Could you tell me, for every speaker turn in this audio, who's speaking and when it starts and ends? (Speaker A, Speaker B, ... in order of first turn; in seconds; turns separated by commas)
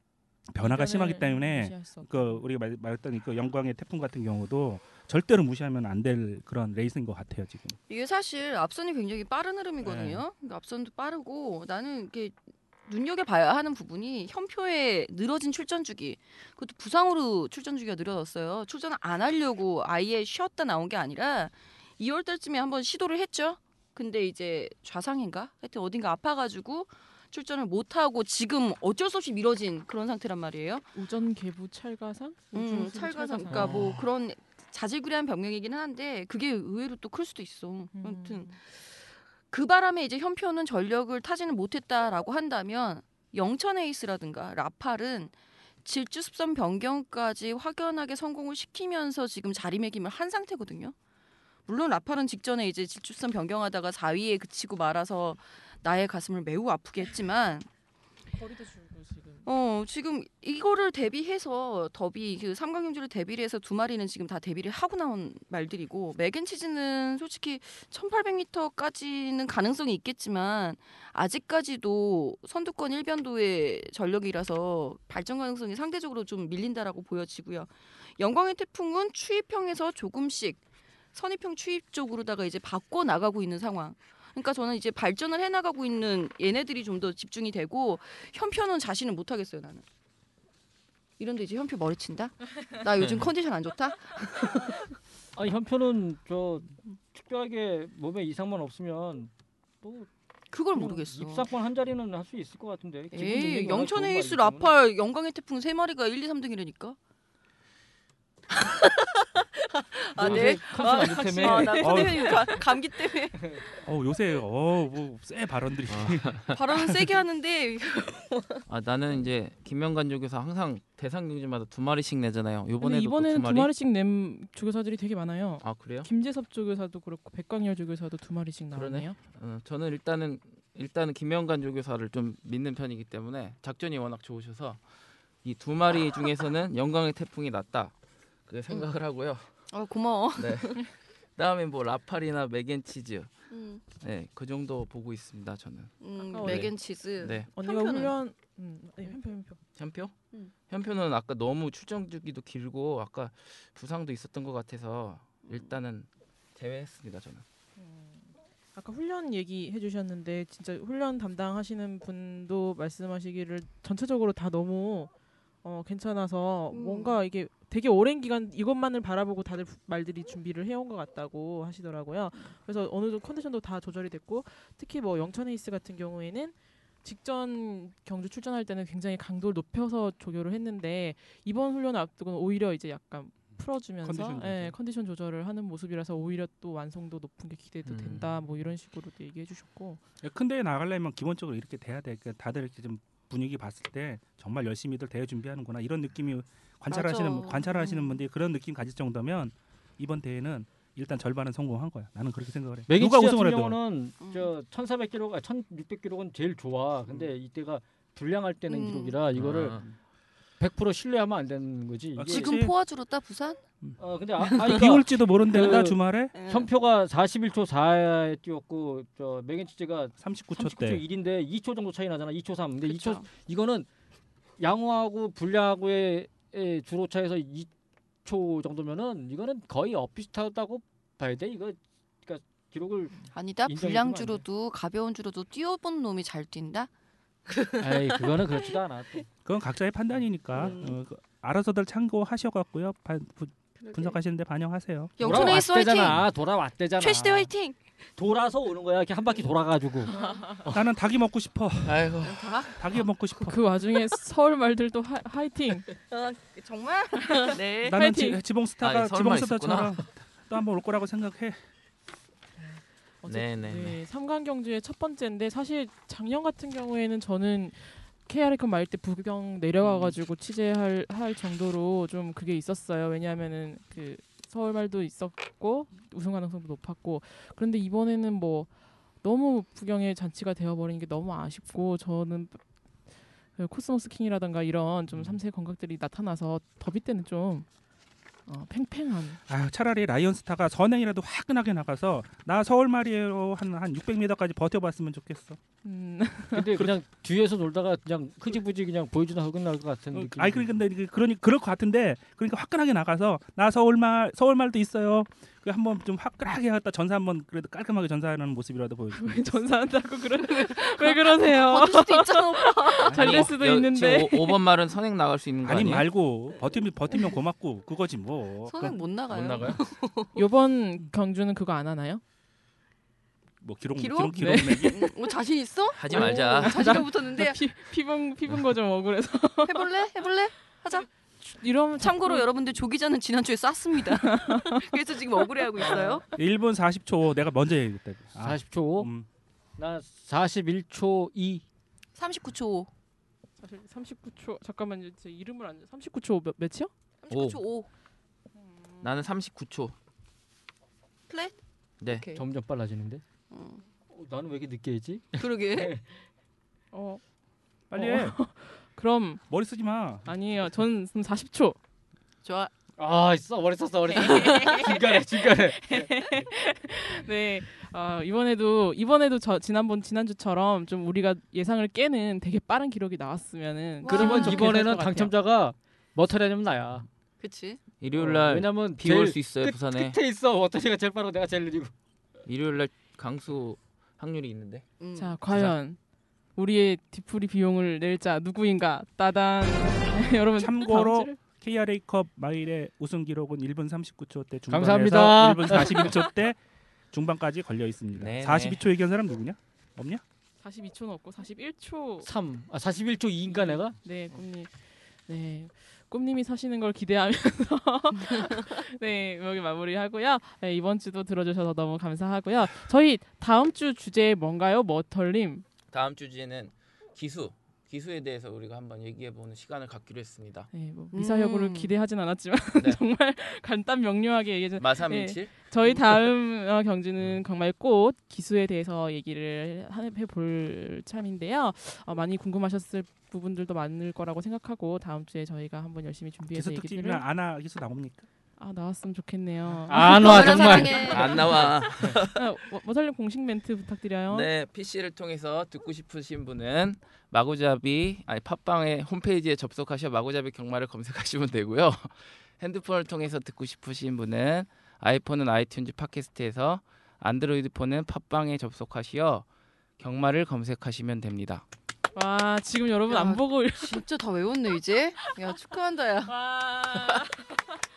Speaker A: 0.5-7.8, Speaker B: 0.6-2.4, Speaker C: 7.9-30.9, Speaker A: 9.8-10.2, Speaker B: 30.9-33.9, Speaker C: 32.5-50.9, Speaker D: 33.6-34.0, Speaker B: 37.9-38.6, Speaker C: 51.6-57.7, Speaker B: 58.3-59.5, Speaker C: 59.5-80.6, Speaker C: 81.1-89.8, Speaker C: 91.2-94.9, Speaker D: 93.0-93.3, Speaker E: 95.3-99.3, Speaker E: 99.8-100.1, Speaker C: 100.5-101.5, Speaker E: 100.7-104.7, Speaker C: 103.1-107.0, Speaker C: 108.5-113.6, Speaker E: 110.2-111.9, Speaker B: 110.3-112.6, Speaker A: 111.8-112.4, Speaker A: 113.8-117.0, Speaker D: 115.9-116.6, Speaker C: 116.5-118.6, Speaker D: 118.7-123.7, Speaker B: 122.8-129.2, Speaker D: 125.6-126.1, Speaker D: 128.7-134.8, Speaker D: 135.4-137.9, Speaker D: 138.5-139.4, Speaker C: 139.7-140.9, Speaker D: 140.3-143.3, Speaker C: 143.5-143.8, Speaker D: 143.9-147.5, Speaker C: 146.0-148.1, Speaker B: 146.2-146.7, Speaker B: 147.3-149.6, Speaker D: 149.8-150.1, Speaker D: 150.7-157.4, Speaker B: 157.8-165.1, Speaker B: 165.6-190.0, Speaker C: 166.7-167.2, Speaker A: 184.0-184.8, Speaker D: 187.9-188.2, Speaker A: 190.2-203.8, Speaker C: 196.9-198.2, Speaker E: 202.9-209.8, Speaker C: 204.2-204.5, Speaker C: 208.7-209.2, Speaker D: 209.3-209.9, Speaker E: 210.6-212.5, Speaker A: 212.1-212.7, Speaker C: 212.3-213.6, Speaker E: 214.0-223.9, Speaker C: 214.4-214.8, Speaker A: 214.6-216.3, Speaker C: 215.5-216.7, Speaker A: 220.2-221.0, Speaker C: 222.8-223.3, Speaker E: 224.6-227.7, Speaker E: 228.2-234.4, Speaker C: 233.3-236.9, Speaker C: 237.5-238.7, Speaker E: 237.8-239.2, Speaker A: 239.4-245.2, Speaker C: 240.5-241.0, Speaker C: 243.8-244.2, Speaker C: 245.2-246.3, Speaker E: 245.2-247.5, Speaker C: 246.9-247.8, Speaker E: 248.2-250.8, Speaker C: 250.1-250.5, Speaker A: 250.7-252.1, Speaker D: 251.8-252.4, Speaker C: 252.2-253.0, Speaker A: 252.8-253.6, Speaker B: 253.4-255.9, Speaker C: 256.1-258.0, Speaker A: 257.8-261.6, Speaker B: 257.9-258.4, Speaker D: 258.8-260.1, Speaker B: 262.6-278.7, Speaker D: 263.3-264.0, Speaker D: 269.8-270.1, Speaker B: 279.2-282.6, Speaker B: 283.6-287.7, Speaker B: 288.5-289.4, Speaker A: 289.5-295.6, Speaker B: 295.8-296.7, Speaker E: 296.5-300.7, Speaker A: 300.1-309.6, Speaker B: 309.1-314.6, Speaker C: 310.5-313.5, Speaker D: 313.1-316.1, Speaker A: 315.6-319.0, Speaker C: 318.7-320.4, Speaker D: 319.3-319.8, Speaker B: 320.3-322.2, Speaker A: 323.6-325.1, Speaker C: 324.0-327.6, Speaker B: 324.4-324.7, Speaker D: 326.0-327.0, Speaker B: 326.1-329.9, Speaker C: 329.6-331.1, Speaker B: 331.4-332.5, Speaker C: 332.0-336.2, Speaker B: 334.0-336.4, Speaker A: 336.4-339.2, Speaker E: 338.4-339.1, Speaker E: 339.8-341.6, Speaker C: 342.1-342.9, Speaker B: 343.6-346.9, Speaker C: 347.2-347.9, Speaker D: 347.3-347.6, Speaker B: 348.6-349.1, Speaker D: 349.0-349.9, Speaker C: 351.3-352.4, Speaker E: 352.3-353.2, Speaker C: 353.5-353.8, Speaker E: 354.1-356.1, Speaker C: 355.4-355.9, Speaker B: 356.9-357.2, Speaker A: 357.9-358.4, Speaker B: 357.9-359.4, Speaker A: 359.5-360.3, Speaker B: 360.2-361.8, Speaker C: 362.4-362.7, Speaker E: 363.0-366.5, Speaker B: 364.1-375.3, Speaker C: 364.2-365.0, Speaker E: 374.1-377.1, Speaker C: 374.1-374.6, Speaker C: 377.4-377.8, Speaker D: 378.0-380.2, Speaker E: 378.1-381.9, Speaker D: 382.4-384.9, Speaker C: 385.0-385.3, Speaker B: 385.1-386.0, Speaker B: 386.6-391.4, Speaker A: 390.6-396.6, Speaker E: 394.7-396.2, Speaker A: 397.1-400.2, Speaker D: 398.2-398.8, Speaker B: 400.6-402.3, Speaker E: 402.2-404.0, Speaker B: 403.5-404.7, Speaker B: 405.3-415.6, Speaker D: 415.9-420.7, Speaker B: 420.7-437.2, Speaker C: 421.1-421.9, Speaker D: 424.8-426.1, Speaker A: 436.5-438.3, Speaker B: 438.6-444.5, Speaker E: 439.9-441.5, Speaker C: 440.0-441.7, Speaker D: 441.0-442.4, Speaker D: 444.3-459.4, Speaker D: 460.0-461.6, Speaker B: 462.1-464.0, Speaker C: 463.1-466.3, Speaker B: 466.3-467.6